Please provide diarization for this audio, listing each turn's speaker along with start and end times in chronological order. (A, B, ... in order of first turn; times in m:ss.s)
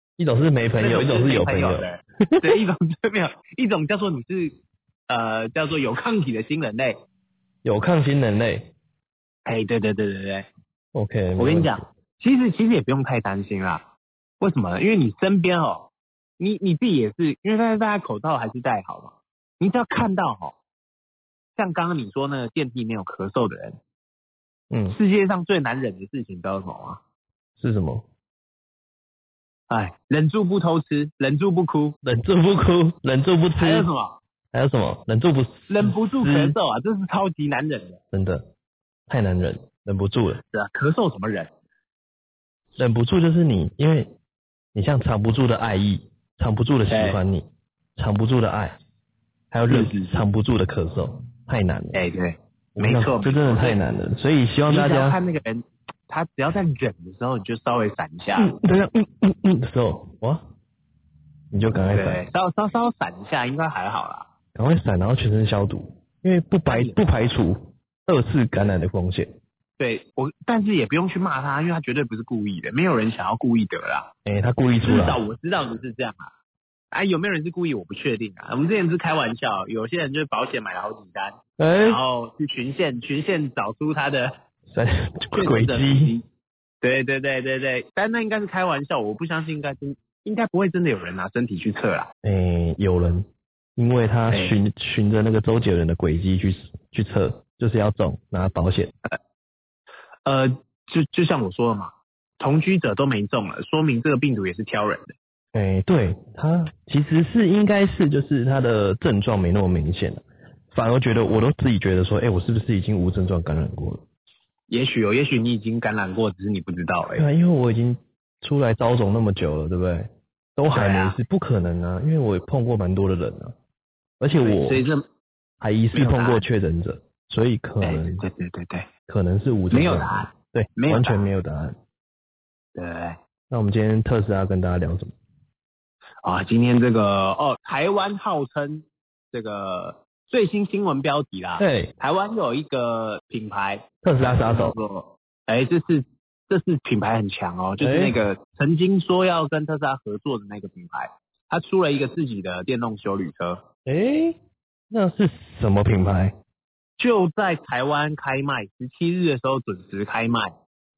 0:00.2-0:02.5 A
0:00.8-0:04.5 B
0:05.1-0:07.0 B
0:07.6-0:08.7 A
0:09.4-0:10.5 B
0:10.9-0:11.8 A
0:11.4-0:13.8 B
0:14.4-0:20.6 B
0:21.6-0:23.8 B
0:24.7-0:25.0 A
0:24.9-0:27.0 B
0:27.6-0:28.0 A
0:29.7-0:32.0 B
0:32.0-0:33.9 A
0:33.6-0:34.2 B
0:34.5-0:36.6 A
0:35.7-0:38.0 B
0:38.1-0:38.4 A
0:39.1-0:40.4 A
0:40.5-0:41.5 B
0:42.8-0:44.1 A
0:44.7-0:48.8 A
0:46.9-0:47.2 B
0:49.5-0:52.0 A
0:49.7-0:50.2 B
0:51.9-0:53.8 B
0:52.8-0:55.2 A
0:54.7-0:58.5 B
0:58.4-1:00.4 A
1:01.5-1:02.2 A
1:01.9-1:04.3 B
1:04.5-1:09.3 A
1:06.7-1:07.0 B
1:09.8-1:14.1 B
1:14.2-1:15.2 A
1:14.8-1:16.3 B
1:16.9-1:24.3 B
1:21.6-1:22.0 A
1:24.7-1:26.1 A
1:25.3-1:26.2 B
1:26.8-1:32.1 B
1:32.2-1:38.9 A
1:34.3-1:34.6 B
1:40.2-1:45.1 B
1:45.5-1:54.0 A
1:54.7-1:57.3 B
1:57.2-2:03.5 A
2:00.7-2:01.2 B
2:04.2-2:04.8 A
2:04.4-2:05.0 B
2:05.6-2:08.2 A
2:05.9-2:06.4 B
2:07.8-2:08.9 B
2:09.1-2:11.8 A
2:09.7-2:11.2 B
2:12.7-2:13.2 B
2:13.5-2:15.1 A
2:16.2-2:33.6 B
2:21.6-2:21.9 A
2:24.0-2:24.8 A
2:27.8-2:28.1 A
2:33.8-2:34.4 A
2:34.9-2:36.3 A
2:37.0-2:40.5 B